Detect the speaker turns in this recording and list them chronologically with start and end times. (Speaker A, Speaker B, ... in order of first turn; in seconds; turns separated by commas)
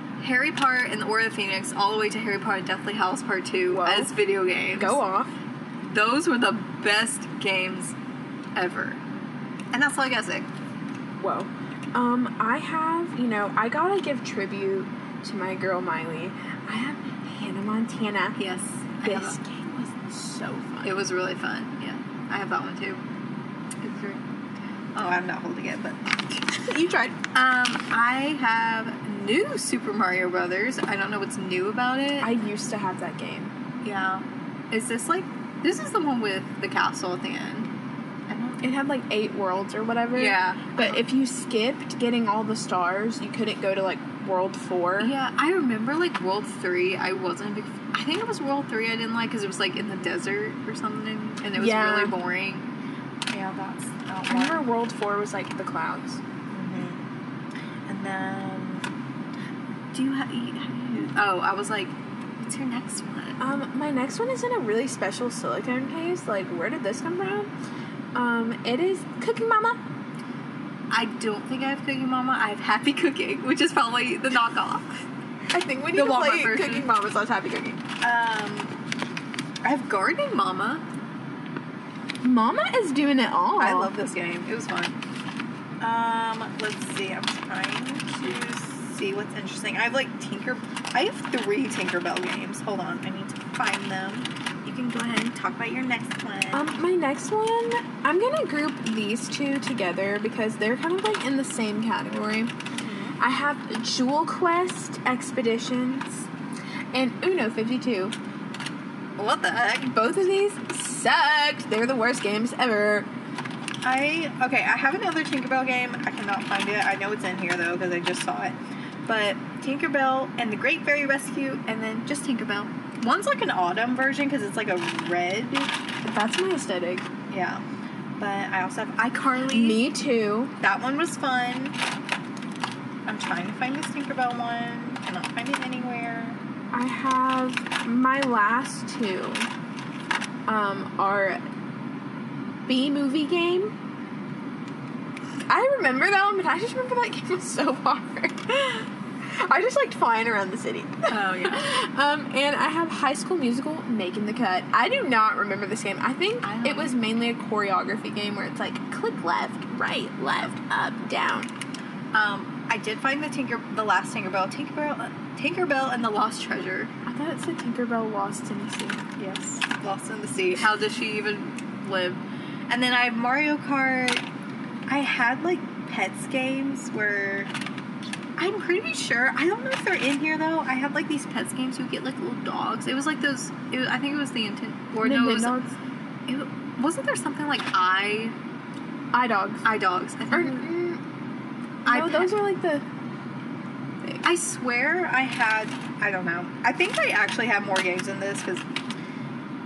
Speaker A: 0.2-5.0, Speaker B: 3.7-4.1, Speaker B: 4.7-5.3, Speaker A: 5.8-8.0, Speaker A: 8.6-9.0, Speaker A: 9.7-10.5, Speaker B: 11.2-18.4, Speaker A: 18.4-19.4, Speaker B: 19.0-21.0, Speaker A: 20.8-23.1, Speaker A: 23.8-24.2, Speaker A: 24.9-26.6, Speaker B: 26.5-27.2, Speaker A: 27.3-32.3, Speaker B: 32.2-33.5, Speaker A: 33.8-37.7, Speaker A: 38.3-38.7, Speaker B: 38.6-45.1, Speaker A: 40.1-41.0, Speaker A: 45.0-52.7, Speaker B: 51.6-52.2, Speaker A: 53.3-54.7, Speaker B: 54.3-56.2, Speaker A: 56.5-57.1, Speaker A: 57.9-59.0, Speaker A: 59.9-63.4, Speaker B: 63.4-67.5, Speaker B: 68.1-69.8, Speaker A: 70.9-75.0, Speaker B: 75.5-77.8, Speaker A: 75.9-76.9, Speaker A: 78.0-78.8, Speaker A: 79.6-80.8, Speaker B: 82.2-83.9, Speaker A: 83.6-85.0, Speaker A: 85.8-96.7, Speaker B: 96.5-102.5, Speaker A: 102.8-103.2, Speaker B: 103.2-106.3, Speaker B: 106.9-108.2, Speaker A: 109.2-110.0, Speaker B: 109.8-113.1, Speaker A: 113.8-125.7, Speaker B: 126.0-127.1, Speaker A: 127.3-127.6, Speaker A: 128.2-129.8, Speaker B: 129.5-130.5, Speaker A: 130.6-131.8, Speaker A: 133.1-136.4, Speaker B: 136.7-139.5, Speaker B: 140.5-141.4, Speaker B: 142.7-143.7, Speaker B: 145.5-161.5, Speaker A: 151.1-151.7, Speaker A: 156.4-157.0, Speaker A: 162.1-166.9, Speaker B: 167.1-169.1, Speaker A: 169.2-174.3, Speaker A: 174.9-177.6, Speaker A: 178.4-185.7, Speaker B: 185.0-185.7, Speaker A: 186.3-188.4, Speaker B: 189.1-189.7, Speaker A: 189.7-190.7, Speaker B: 190.3-191.0, Speaker A: 191.8-192.3, Speaker B: 191.9-192.9, Speaker A: 194.2-198.7